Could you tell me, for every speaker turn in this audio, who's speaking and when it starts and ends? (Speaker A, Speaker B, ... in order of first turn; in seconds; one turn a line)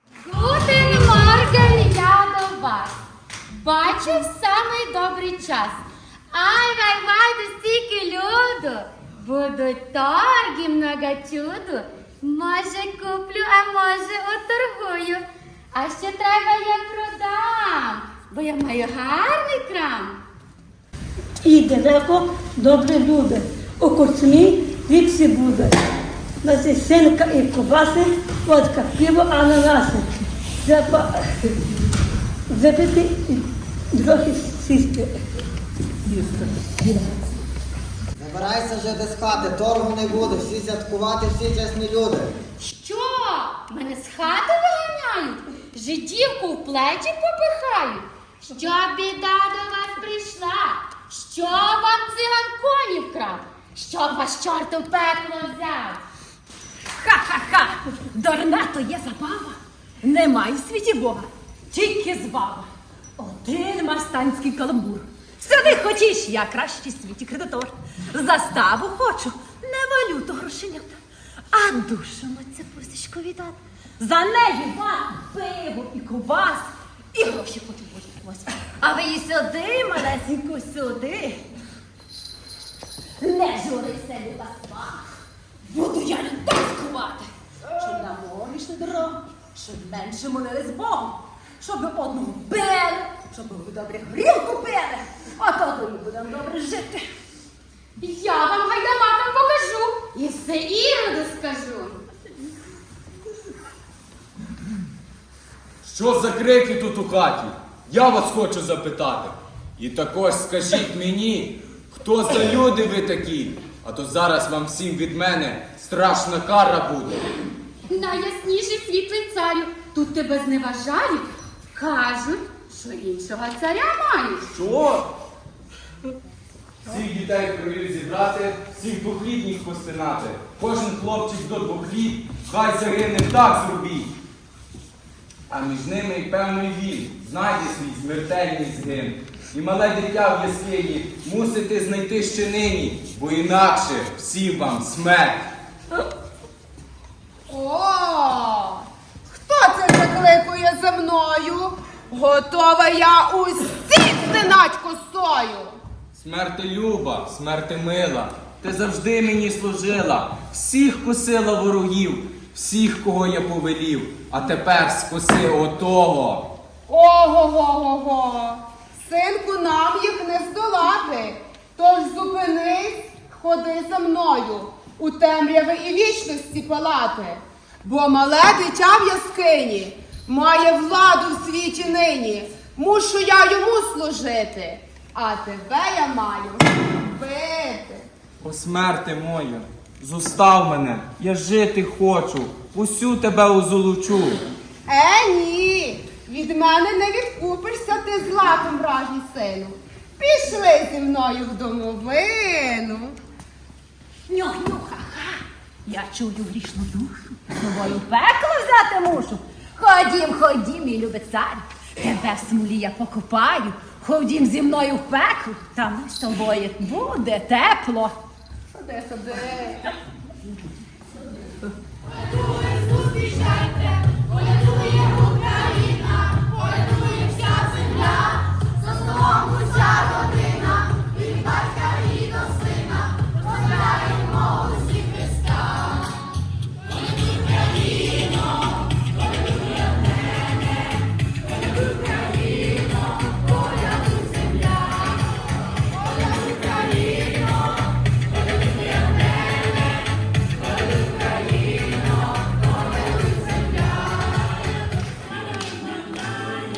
Speaker A: 0.3-2.9
Speaker A: 3.6-20.2
Speaker B: 21.4-25.8
Speaker B: 26.4-31.5
Speaker B: 32.5-35.1
Speaker C: 38.2-42.3
Speaker A: 42.6-56.0
Speaker D: 56.9-71.0
Speaker D: 71.5-81.4
Speaker D: 83.2-85.1
Speaker D: 85.7-87.3
Speaker D: 87.8-97.1
Speaker A: 98.0-102.0
Speaker E: 105.8-117.2
Speaker A: 117.9-124.5
Speaker E: 124.5-125.1
Speaker E: 126.9-134.1
Speaker E: 135.5-145.5
Speaker F: 147.5-155.7
Speaker E: 156.1-166.5
Speaker F: 166.9-188.1
Speaker E: 188.4-194.4
Speaker F: 194.9-203.2
Speaker D: 204.3-218.2
Speaker F: 218.7-219.8